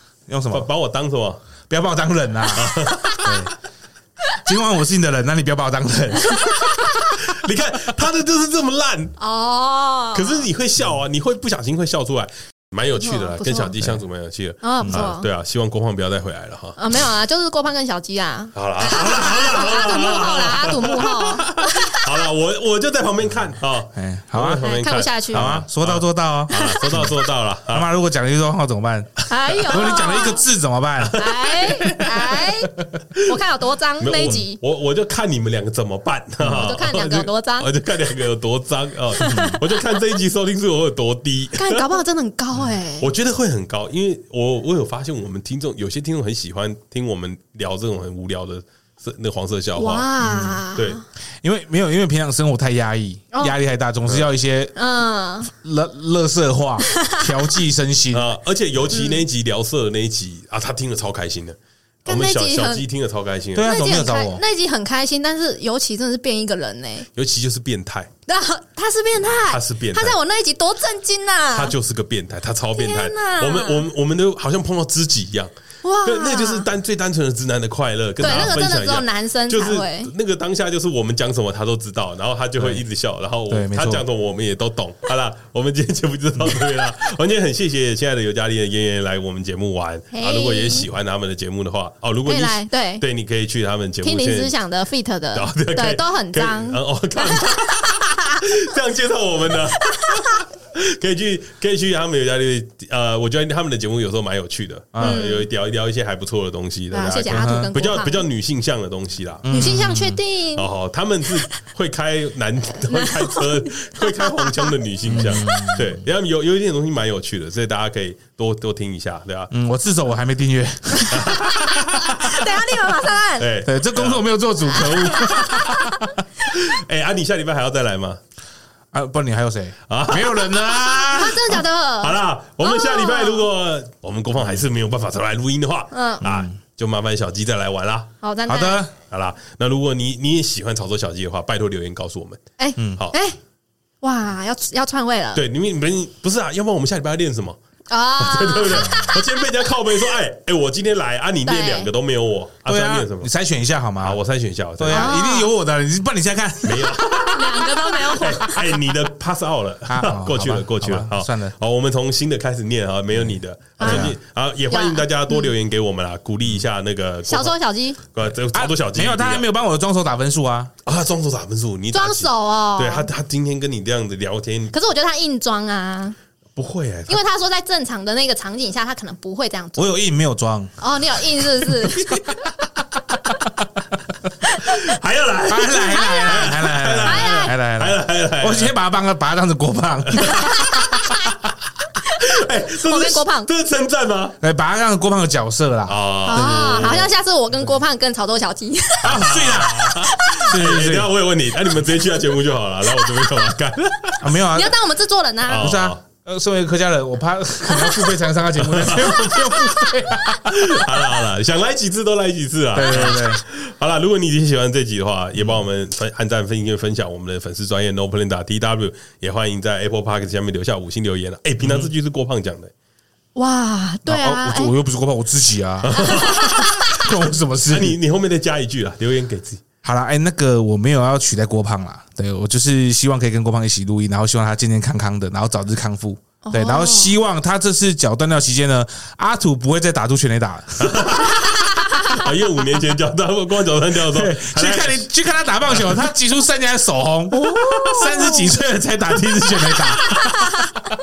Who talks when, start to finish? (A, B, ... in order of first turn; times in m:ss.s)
0:00.3-0:00.7 A
0:00.5-0:01.4 B
0:01.7-0:03.5 A
0:02.6-0:03.4 B
0:04.4-0:06.6 A
0:07.1-0:09.2 B
0:09.2-0:10.5 C
0:10.1-0:17.0 B
0:13.0-0:13.8 C
0:14.6-0:15.3 C
0:16.8-0:22.2 C
0:18.6-0:27.9 B
0:24.0-0:24.6 A
0:24.6-0:25.6 C
0:25.3-0:27.1 A
0:26.5-0:27.1 C
0:27.7-0:31.2 A
0:29.3-0:30.4 C
0:29.7-0:30.2 B
0:31.1-0:32.4 B
0:31.2-0:34.6 C
0:34.0-0:42.0 B
0:36.4-0:36.8 A
0:36.6-0:37.7 C
0:39.1-0:40.0 C
0:39.2-0:39.6 A
0:41.6-0:43.1 C
0:43.0-0:50.1 B
0:49.8-0:51.0 C
0:50.2-0:50.7 A
0:50.8-0:51.0 B
0:51.4-0:54.7 A
0:54.8-0:55.5 C
0:55.4-0:58.3 A
0:56.9-0:57.4 C
0:58.1-1:03.7 B
0:58.9-0:59.2 C
1:02.1-1:02.8 C
1:03.5-1:04.4 A
1:03.6-1:07.1 C
1:07.2-1:08.1 B
1:08.3-1:11.8 C
1:09.4-1:10.2 B
1:11.5-1:15.5 B
1:12.7-1:13.8 C
1:15.8-1:16.7 C
1:16.0-1:34.5 B
1:18.2-1:20.1 C
1:22.6-1:22.8 A
1:23.5-1:24.0 A
1:30.1-1:30.9 C
1:32.3-1:33.0 C
1:34.0-1:37.4 C
1:35.3-1:49.5 B
1:44.9-1:45.2 A
1:45.0-1:45.5 C
1:46.9-1:48.2 C
1:47.3-1:47.8 A
1:49.4-1:50.2 A
1:49.5-1:50.7 C
1:50.6-1:59.5 B
1:52.9-1:55.8 C
1:55.0-1:56.0 A
1:59.5-2:01.8 A
2:01.1-2:02.1 B
2:01.9-2:03.5 C
2:03.4-2:04.2 B
2:03.6-2:06.2 A
2:04.8-2:06.0 C
2:04.8-2:05.7 B
2:06.5-2:08.2 B
2:08.9-2:11.6 A
2:09.9-2:10.6 B
2:10.6-2:13.5 C
2:12.0-2:18.2 B
2:15.9-2:16.2 C
2:16.2-2:16.5 A
2:18.2-2:18.8 C
2:18.5-2:18.9 A
2:19.1-2:22.4 B
2:22.6-2:23.4 C
2:24.0-2:25.4 C
2:25.4-2:27.6 B
2:27.9-2:29.2 C
2:28.2-2:33.3 B
2:28.9-2:29.1 A
2:31.5-2:31.9 C
2:32.7-2:34.2 A
2:34.0-2:35.2 B
2:34.8-2:37.3 A
2:34.9-2:35.5 C
2:36.6-2:47.6 B
2:37.3-2:38.7 C
2:39.9-2:41.6 A
2:43.2-2:44.2 A
2:43.8-2:44.1 C
2:44.7-2:45.5 C
2:47.3-2:48.0 C
2:48.1-2:49.4 B
2:48.5-2:50.7 A
2:50.8-2:54.7 B
2:51.9-2:53.1 C
2:54.7-2:56.2 C
2:56.6-2:57.2 B
2:57.1-2:59.9 C
2:59.8-3:00.7 A
3:00.8-3:02.2 C
3:04.7-3:08.8 B
3:05.5-3:11.2 A
3:05.7-3:07.6 C
3:10.1-3:11.1 B
3:10.3-3:10.8 C
3:12.2-3:14.4 B
3:12.2-3:13.5 C
3:14.4-3:17.1 A
3:15.9-3:17.1 B
3:16.3-3:19.2 C
3:19.0-3:21.1 A
3:19.0-3:24.3 B
3:20.0-3:20.5 C
3:24.2-3:24.8 A
3:24.4-3:25.7 C
3:25.4-3:26.0 B
3:25.6-3:30.8 A
3:27.7-3:28.2 C
3:28.6-3:42.7 B
3:29.1-3:29.5 C
3:32.7-3:33.4 A
3:41.6-3:41.9 A
3:43.4-3:44.7 C
3:44.1-3:48.0 A
3:45.8-3:46.6 B
3:45.9-3:47.1 C
3:47.7-3:49.6 B
3:49.8-4:01.4 A
3:56.4-3:57.2 C
4:00.8-4:01.5 B
4:02.1-4:05.0 B
4:04.1-4:10.6 A
4:05.7-4:06.0 B
4:07.4-4:08.6 C
4:09.7-4:10.9 C